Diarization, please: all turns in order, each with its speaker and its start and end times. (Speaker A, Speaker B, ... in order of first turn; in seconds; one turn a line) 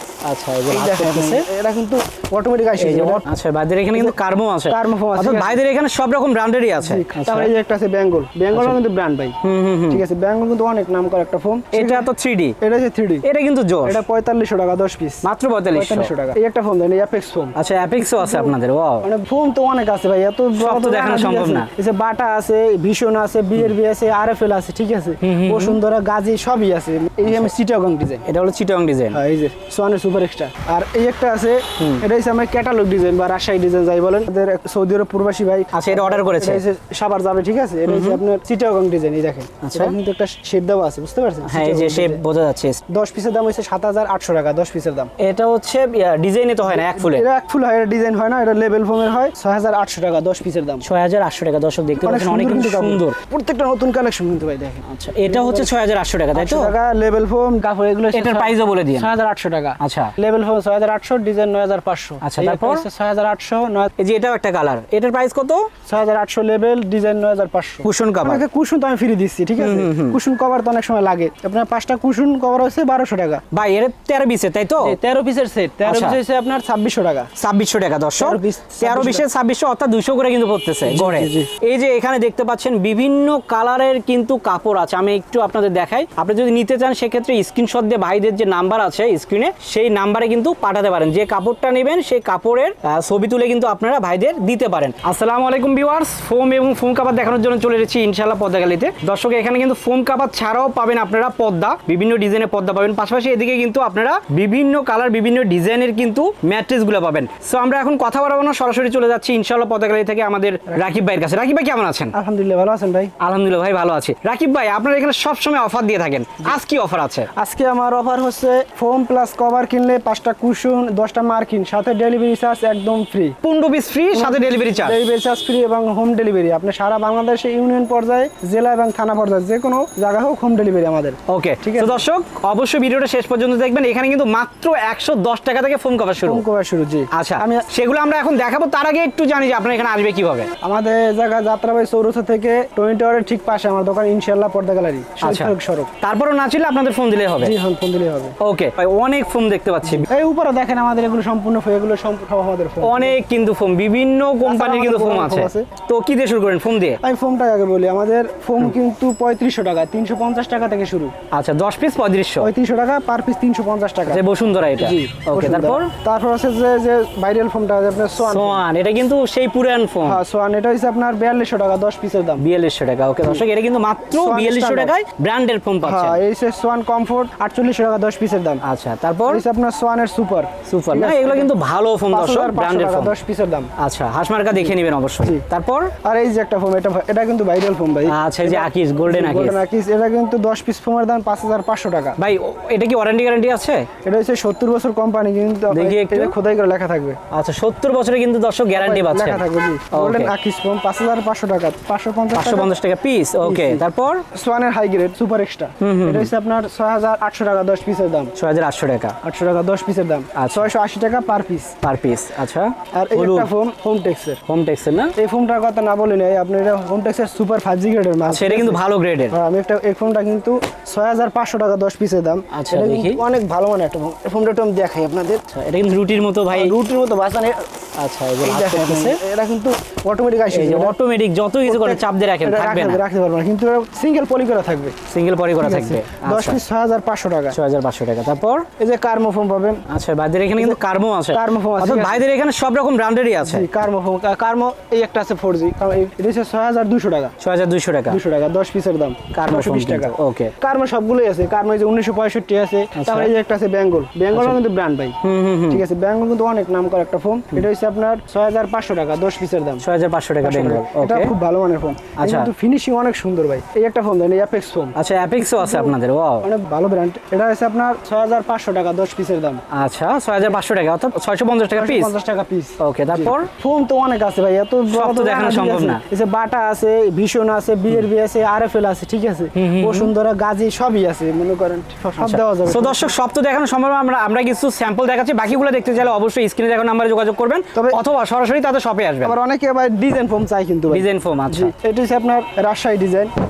Speaker A: 0.2-1.4
Speaker B: 0.7-3.2
Speaker A: 2.8-7.5
Speaker B: 4.7-5.6
Speaker B: 6.8-9.4
Speaker A: 8.5-8.8
Speaker A: 9.4-10.0
Speaker B: 9.9-12.1
Speaker A: 11.7-12.5
Speaker B: 12.6-13.2
Speaker A: 13.2-14.0
Speaker B: 13.8-28.2
Speaker A: 15.2-16.1
Speaker A: 17.5-19.1
Speaker A: 20.6-21.7
Speaker A: 25.2-25.8
Speaker A: 27.2-27.5
Speaker A: 28.2-29.2
Speaker B: 29.1-42.2
Speaker A: 31.8-32.0
Speaker A: 35.7-36.6
Speaker A: 37.9-38.2
Speaker A: 39.6-39.9
Speaker A: 41.4-42.8
Speaker B: 42.9-45.1
Speaker A: 45.2-47.2
Speaker B: 46.6-50.8
Speaker A: 50.8-53.2
Speaker B: 52.0-55.8
Speaker A: 54.8-56.7
Speaker B: 56.3-63.9
Speaker A: 58.1-59.1
Speaker A: 59.8-60.1
Speaker A: 62.2-62.9
Speaker A: 64.0-65.7
Speaker B: 65.9-73.4
Speaker A: 67.8-68.4
Speaker A: 69.6-70.2
Speaker A: 73.5-75.0
Speaker B: 74.8-77.3
Speaker A: 75.8-76.2
Speaker A: 77.4-112.1
Speaker B: 78.2-79.2
Speaker B: 80.8-81.5
Speaker B: 112.1-113.1
Speaker A: 113.2-117.3
Speaker B: 117.3-123.4
Speaker A: 123.4-125.0
Speaker B: 124.1-132.0
Speaker A: 131.3-136.4
Speaker B: 136.2-137.7
Speaker A: 137.1-140.5
Speaker B: 140.6-145.9
Speaker A: 145.2-147.6
Speaker B: 147.4-148.3
Speaker A: 148.4-150.1
Speaker B: 149.8-153.2
Speaker A: 152.8-157.0
Speaker B: 154.4-155.7
Speaker B: 157.0-161.1
Speaker A: 161.3-162.5
Speaker B: 162.4-164.2
Speaker A: 164.1-165.9
Speaker B: 164.8-168.6
Speaker A: 168.2-170.2
Speaker B: 170.0-172.4
Speaker A: 172.4-176.2
Speaker B: 174.1-174.9
Speaker B: 175.8-178.6
Speaker A: 178.6-179.4
Speaker B: 179.3-181.5
Speaker A: 180.7-183.1
Speaker B: 182.1-183.7
Speaker A: 183.8-185.9
Speaker B: 184.5-185.4
Speaker B: 186.0-192.2
Speaker A: 188.1-189.6
Speaker A: 192.2-193.9
Speaker B: 194.0-197.2
Speaker A: 195.7-196.3
Speaker A: 197.3-200.3
Speaker B: 198.7-202.7
Speaker A: 202.3-204.2
Speaker B: 203.4-208.3
Speaker A: 205.8-206.3
Speaker A: 208.3-209.2
Speaker B: 209.2-211.8
Speaker A: 210.3-210.7
Speaker A: 211.8-213.5
Speaker B: 212.9-214.4
Speaker A: 214.4-215.1
Speaker B: 215.2-225.4
Speaker A: 218.3-219.3
Speaker A: 222.5-223.2
Speaker A: 225.5-226.8
Speaker B: 226.5-227.6
Speaker A: 228.0-229.2
Speaker B: 228.4-230.9
Speaker A: 230.5-233.0
Speaker B: 231.6-234.9
Speaker A: 235.1-236.6
Speaker B: 235.6-237.6
Speaker A: 237.5-238.7
Speaker B: 238.8-239.8
Speaker A: 239.9-243.7
Speaker B: 241.3-242.2
Speaker B: 243.4-247.3
Speaker A: 247.4-248.2
Speaker B: 248.1-255.2
Speaker A: 249.3-250.5
Speaker A: 252.9-253.3
Speaker A: 255.2-255.8
Speaker B: 255.7-259.8
Speaker A: 259.8-261.3
Speaker B: 260.4-269.6
Speaker A: 262.2-262.5
Speaker A: 264.9-266.5
Speaker A: 269.7-272.1
Speaker B: 271.7-283.1
Speaker A: 272.8-273.5
Speaker A: 274.9-276.0
Speaker A: 279.5-280.1
Speaker A: 282.2-289.4
Speaker B: 287.7-288.0
Speaker B: 289.2-293.3
Speaker A: 290.9-291.7